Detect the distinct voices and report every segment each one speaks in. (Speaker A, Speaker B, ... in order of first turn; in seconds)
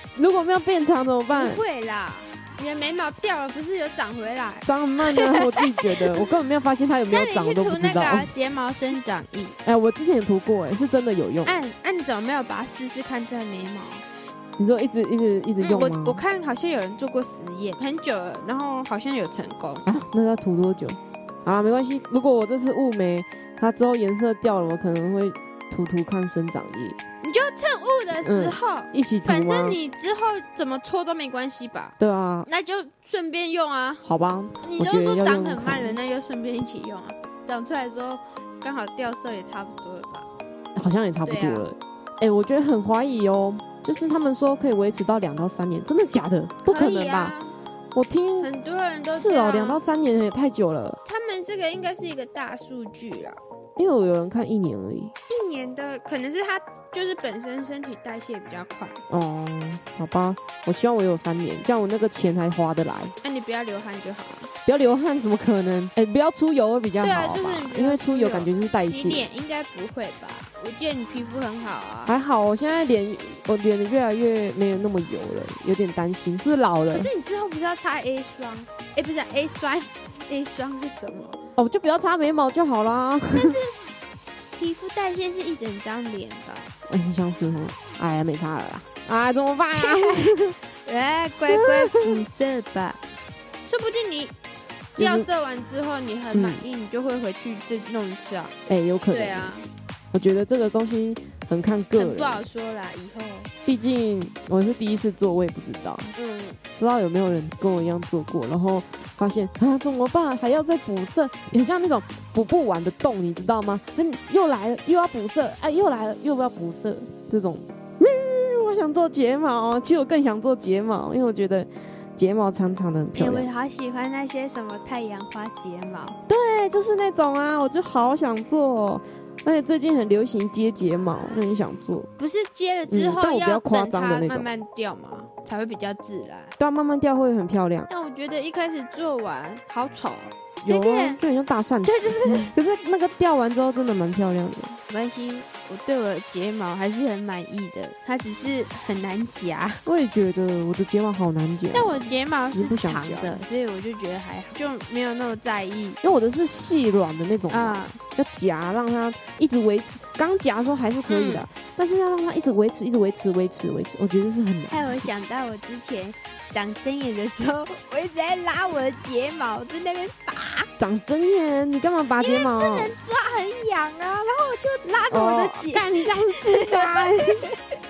Speaker A: 0.2-1.6, 4.7-8.3, 9.6-11.6, 14.6-16.2, 19.9-27.0, 28.2-29.8, 32.0-32.5, 34.0-36.0, 40.8-47.4, 47.9-48.5, 49.1-51.0, 53.8-55.1, 59.1-63.1, 64.7-69.2, 72.1-77.1, 81.6-83.6, 86.9-90.6, 91.5-92.2, 95.0-95.3, 96.3-96.6, 98.7-99.5, 100.1-102.4, 103.7-106.2, 106.8-123.5, 126.3-132.1, 132.9-134.5, 136.6-137.9, 140.7-144.8, 149.8-153.4, 156.0-165.1, 170.8-172.9, 175.1-177.5
Speaker B: 1.3-6.2, 7.1-9.6, 11.4-14.1, 15.6-19.9, 27.2-31.9, 32.5-34.0, 34.6-40.3, 41.2-41.7, 46.6-47.5, 48.4-49.8, 51.0-53.4, 55.3-59.0, 63.2-64.5, 67.0-72.1, 76.9-81.4, 83.3-83.8, 84.6-86.7, 89.8-93.0, 93.7-94.3, 95.0-98.5, 99.1-99.7, 102.0-103.5, 106.2-106.6, 123.2-126.2, 132.2-136.5, 137.9-141.2, 141.8-142.6, 144.9-149.8, 151.7-156.0, 157.5-158.0, 161.1-161.4, 164.7-170.7, 172.2-177.6